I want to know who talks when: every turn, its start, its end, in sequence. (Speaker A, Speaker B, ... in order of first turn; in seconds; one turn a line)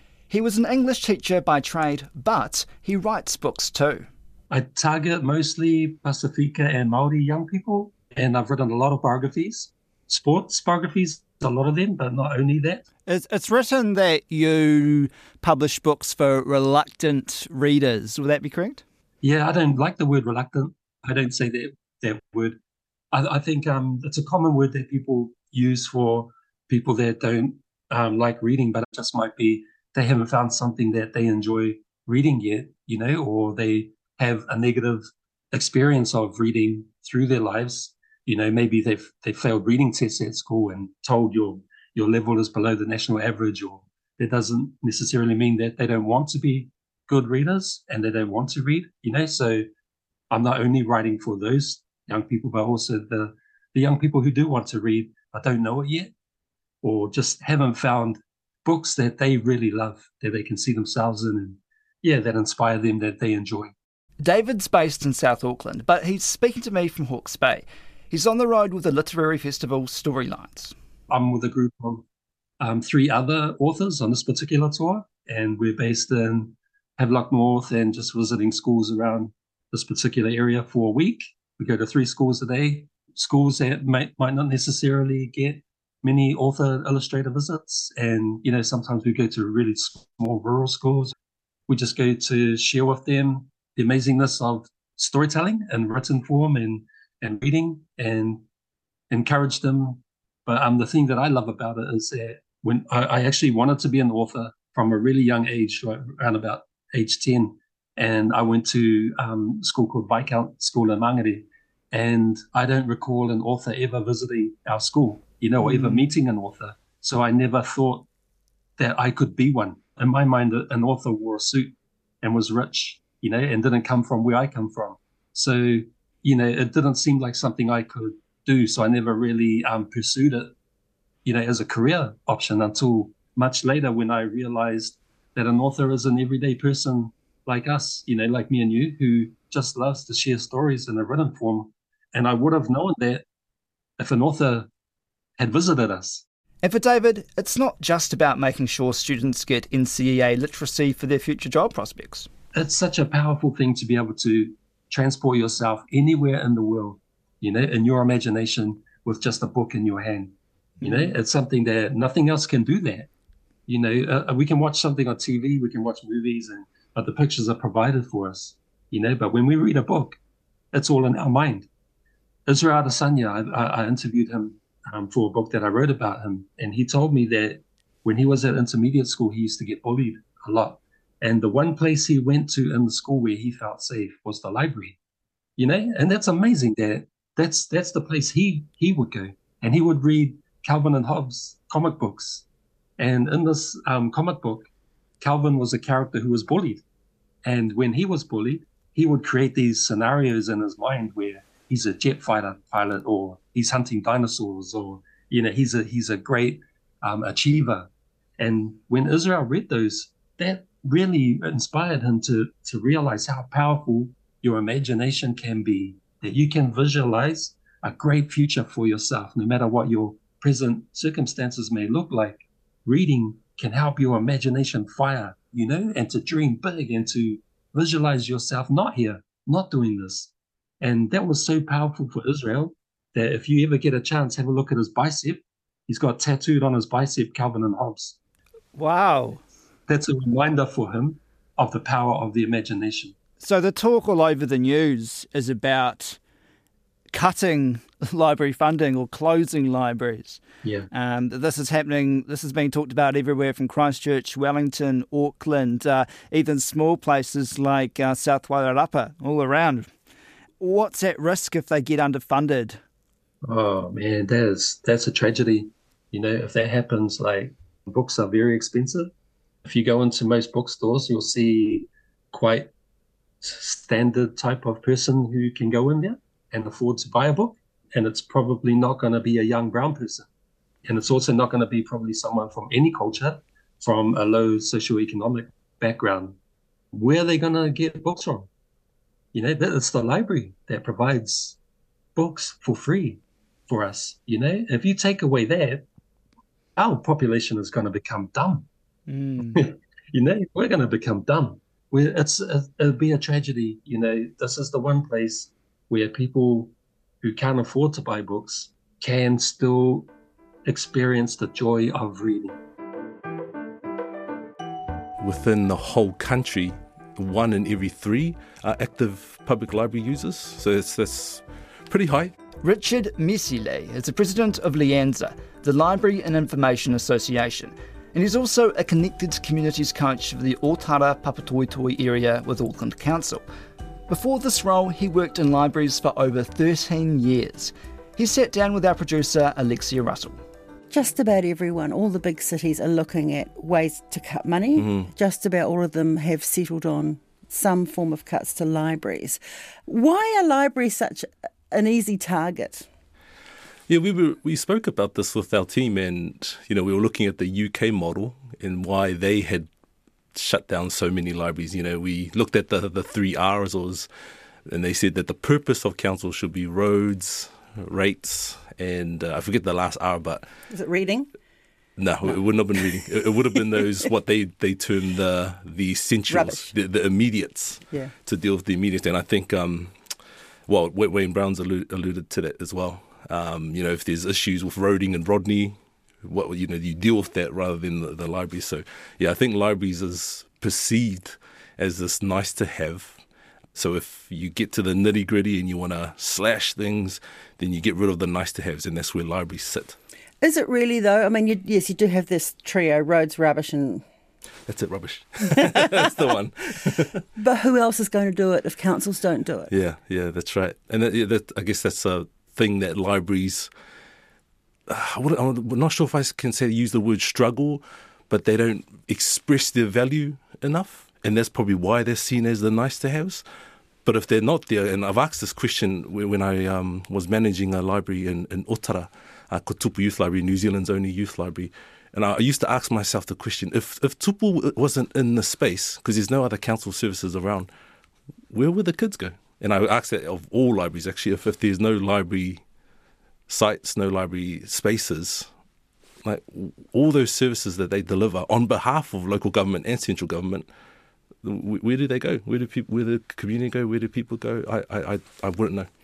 Speaker A: 0.3-4.1
Speaker B: 4.5-12.8
Speaker A: 13.1-18.8
Speaker B: 19.2-22.6
Speaker B: 23.1-49.7
Speaker B: 50.3-56.1
Speaker B: 56.8-63.7
Speaker A: 64.2-70.7
Speaker B: 71.1-72.0
Speaker B: 72.6-91.1
Speaker B: 91.7-98.4
Speaker B: 99.1-118.1
Speaker A: 115.6-116.1
Speaker B: 118.8-130.5
Speaker B: 131.2-143.2
Speaker B: 144.0-144.7
Speaker B: 145.4-146.2
Speaker A: 146.6-152.3
Speaker B: 152.6-163.1
Speaker A: 160.8-161.2
Speaker B: 163.7-170.2
Speaker B: 170.7-171.7
Speaker B: 172.5-185.0
Speaker B: 185.6-192.4
Speaker B: 193.0-194.7
Speaker B: 195.2-196.8
Speaker B: 197.4-238.2
Speaker A: 238.8-239.4
Speaker B: 239.9-243.2
Speaker A: 243.4-246.2
Speaker A: 247.1-250.4
Speaker B: 250.6-250.9
Speaker A: 250.9-259.9
Speaker A: 260.6-262.8
Speaker B: 263.4-269.1
Speaker B: 269.6-272.7
Speaker B: 273.4-280.3
Speaker B: 280.9-286.4
Speaker B: 286.9-288.5
Speaker B: 289.3-291.6
Speaker B: 292.2-295.9
Speaker B: 296.8-298.7
Speaker A: 299.1-299.6
Speaker B: 299.5-310.1
Speaker B: 310.7-312.6
Speaker C: 315.2-322.3
Speaker A: 322.6-333.5
Speaker A: 334.1-340.4
Speaker D: 340.9-352.9
Speaker C: 344.8-345.1
Speaker C: 353.9-359.7
Speaker C: 360.3-364.1
Speaker C: 364.7-370.5
Speaker D: 370.7-371.3
Speaker C: 372.0-379.9
Speaker D: 376.3-376.7
Speaker C: 380.7-393.2
Speaker C: 393.8-400.0
Speaker D: 400.4-404.0
Speaker C: 404.7-407.2
Speaker D: 405.6-406.1
Speaker D: 407.4-409.7
Speaker C: 409.7-413.7
Speaker C: 414.9-423.4
Speaker C: 424.1-437.7
Speaker C: 438.5-442.6
Speaker C: 443.5-445.5
Speaker C: 446.2-450.7
Speaker C: 451.4-455.9